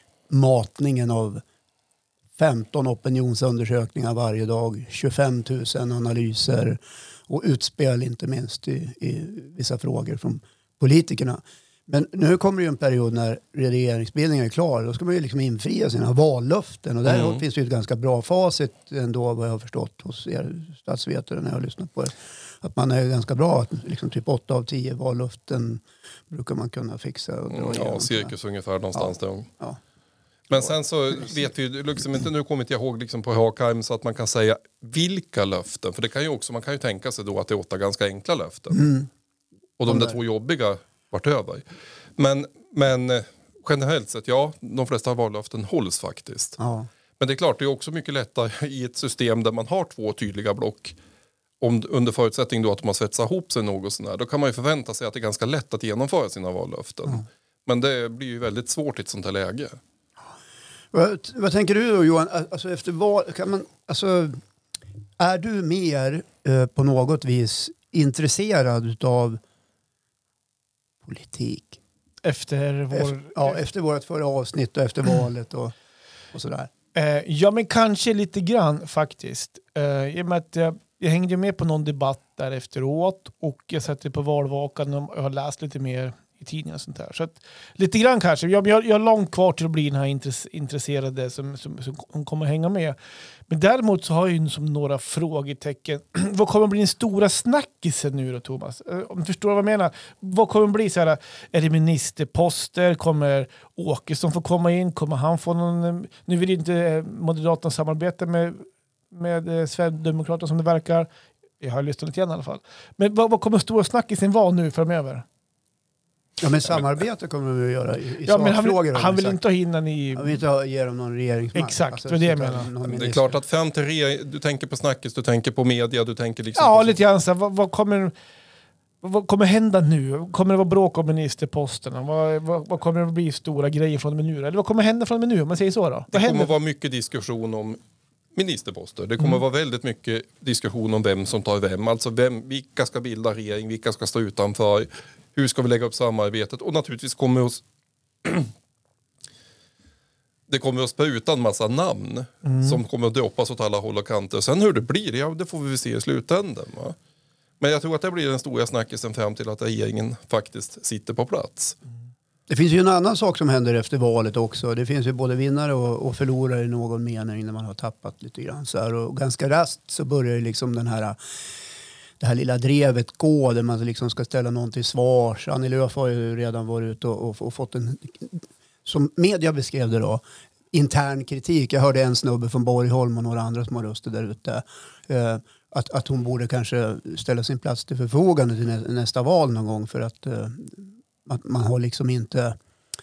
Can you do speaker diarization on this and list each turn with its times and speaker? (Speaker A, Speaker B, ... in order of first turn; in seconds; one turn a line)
Speaker A: 0.3-1.4
Speaker A: 2.4-28.3
Speaker B: 17.1-17.4
Speaker B: 27.5-29.5
Speaker A: 28.9-29.8
Speaker B: 30.5-38.9
Speaker A: 38.7-39.1
Speaker B: 39.8-41.6
Speaker A: 39.9-40.1
Speaker B: 42.2-46.6
Speaker A: 46.6-46.9
Speaker B: 47.2-51.0
Speaker B: 51.6-59.8
Speaker A: 60.9-64.4
Speaker A: 65.2-69.4
Speaker A: 71.0-71.8
Speaker C: 72.2-73.6
Speaker A: 72.9-75.7
Speaker A: 76.3-76.7
Speaker C: 76.9-93.0
Speaker C: 93.5-111.1
Speaker C: 111.6-115.2
Speaker A: 116.4-119.4
Speaker C: 118.2-120.4
Speaker A: 120.1-123.4
Speaker C: 121.5-122.7
Speaker B: 122.8-127.0
Speaker C: 126.5-128.1
Speaker C: 129.0-136.5
Speaker B: 136.1-137.8
Speaker B: 138.3-147.6
Speaker B: 148.2-148.5
Speaker B: 150.5-157.0
Speaker C: 152.4-152.8
Speaker B: 157.6-161.8
Speaker A: 162.5-171.2
Speaker A: 172.2-192.6